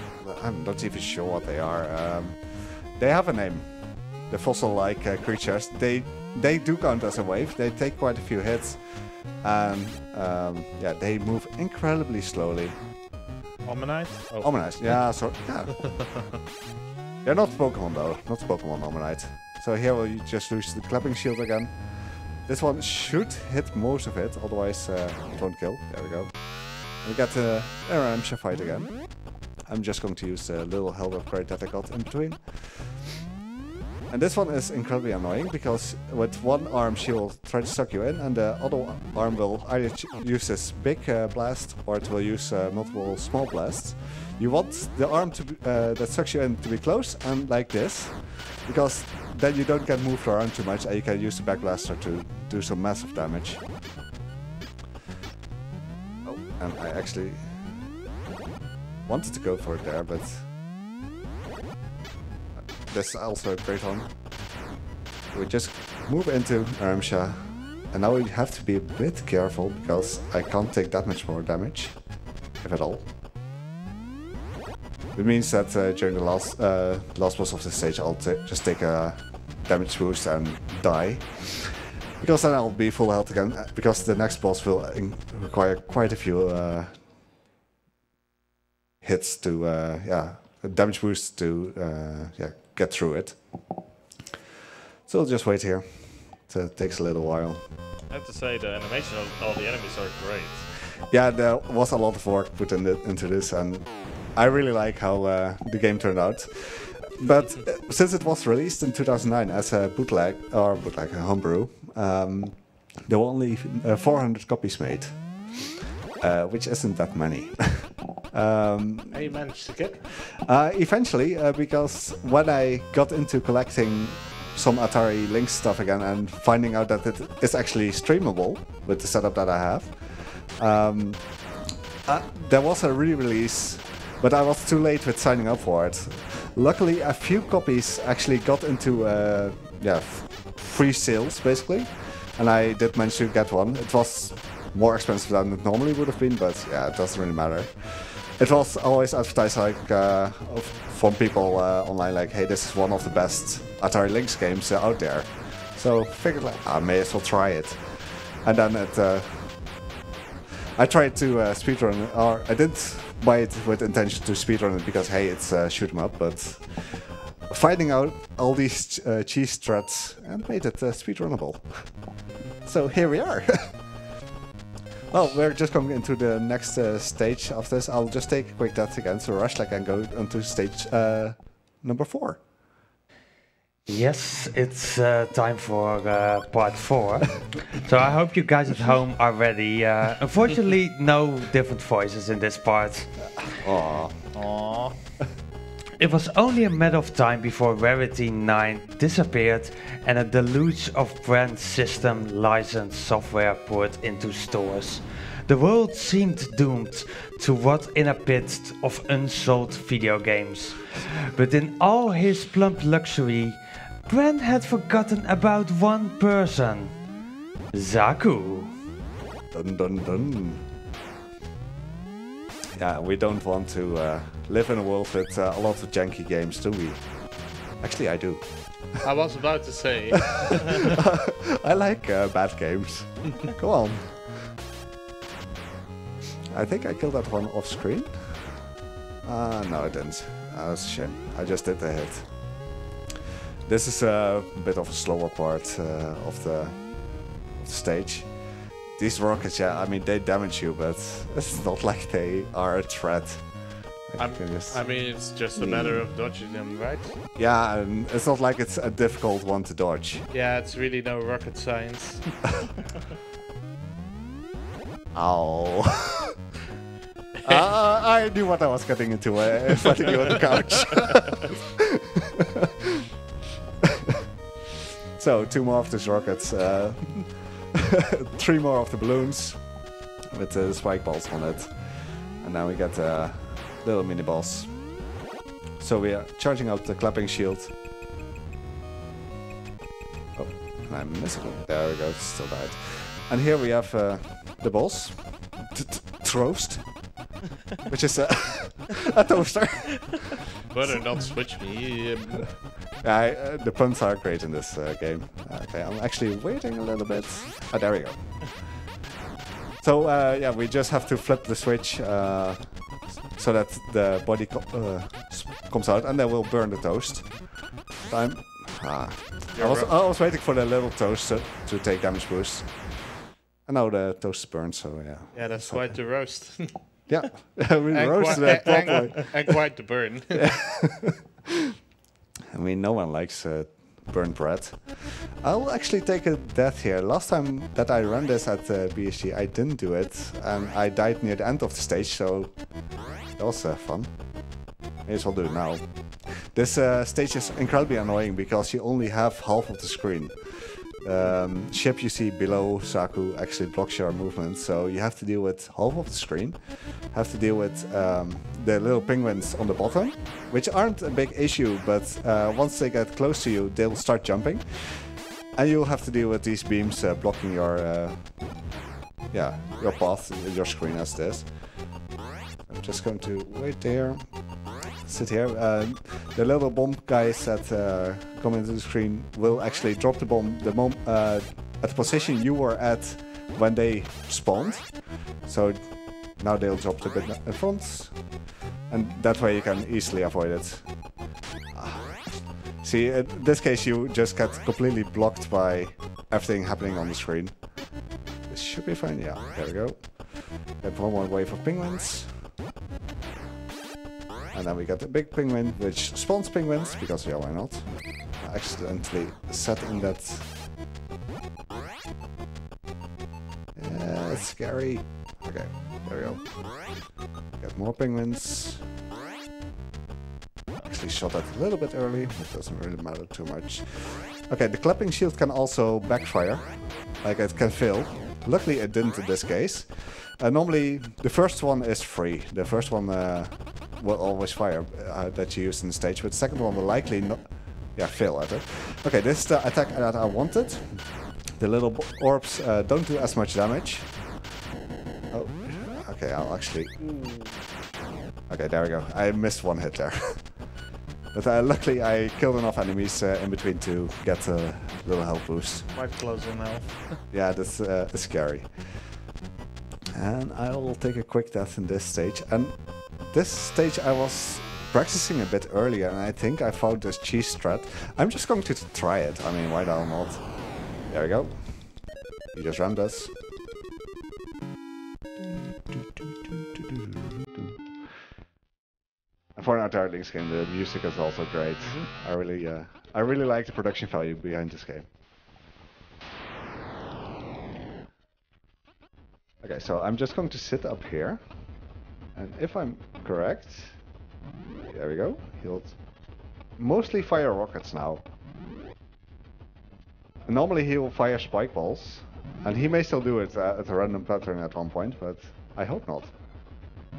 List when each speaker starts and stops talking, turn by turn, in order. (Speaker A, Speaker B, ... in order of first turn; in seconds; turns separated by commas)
Speaker A: 0.2-12.8, Speaker B: 13.7-16.0, Speaker A: 14.4-16.2, Speaker A: 17.2-33.1, Speaker A: 34.1-53.7, Speaker A: 56.2-57.7, Speaker A: 59.0-60.5, Speaker A: 62.5-64.2, Speaker A: 65.3-73.1, Speaker A: 75.1-87.0, Speaker A: 89.0-93.6, Speaker A: 95.1-97.7, Speaker C: 98.1-100.7, Speaker A: 101.1-119.3, Speaker B: 119.1-120.2, Speaker A: 120.3-131.4, Speaker A: 132.1-159.9, Speaker A: 160.8-173.9, Speaker A: 175.1-182.4, Speaker D: 183.9-193.4, Speaker A: 193.5-194.4, Speaker B: 194.3-194.9, Speaker D: 196.0-217.0, Speaker D: 217.7-218.7, Speaker A: 219.5-220.6, Speaker A: 222.8-228.9, Speaker B: 229.0-230.9, Speaker A: 230.6-234.6, Speaker A: 236.5-238.7, Speaker A: 239.2-242.8, Speaker A: 243.7-256.1, Speaker B: 254.2-257.2, Speaker A: 257.4-260.2, Speaker B: 260.3-262.4, Speaker A: 265.1-266.3, Speaker A: 267.4-271.7, Speaker A: 275.1-285.1, Speaker A: 285.8-287.7, Speaker A: 290.4-297.3, Speaker A: 297.9-300.9, Speaker B: 300.7-302.6, Speaker A: 303.0-308.7, Speaker A: 309.8-326.0, Speaker B: 319.6-319.9, Speaker B: 325.3-327.1, Speaker A: 327.1-329.5, Speaker B: 327.9-330.5, Speaker A: 330.4-331.3, Speaker A: 332.5-368.7, Speaker A: 369.3-372.0, Speaker A: 372.7-402.4, Speaker A: 404.5-410.5, Speaker A: 413.8-418.8, Speaker A: 420.8-444.2, Speaker A: 445.3-447.0, Speaker B: 447.0-447.6, Speaker A: 448.5-450.7, Speaker A: 451.3-455.9, Speaker B: 455.9-457.2, Speaker A: 457.3-459.2, Speaker A: 460.1-473.3, Speaker A: 475.4-477.8, Speaker A: 479.6-485.1, Speaker B: 481.8-482.1, Speaker A: 489.6-491.4, Speaker A: 492.4-494.0, Speaker A: 494.9-496.0, Speaker A: 496.8-498.2, Speaker A: 500.5-506.4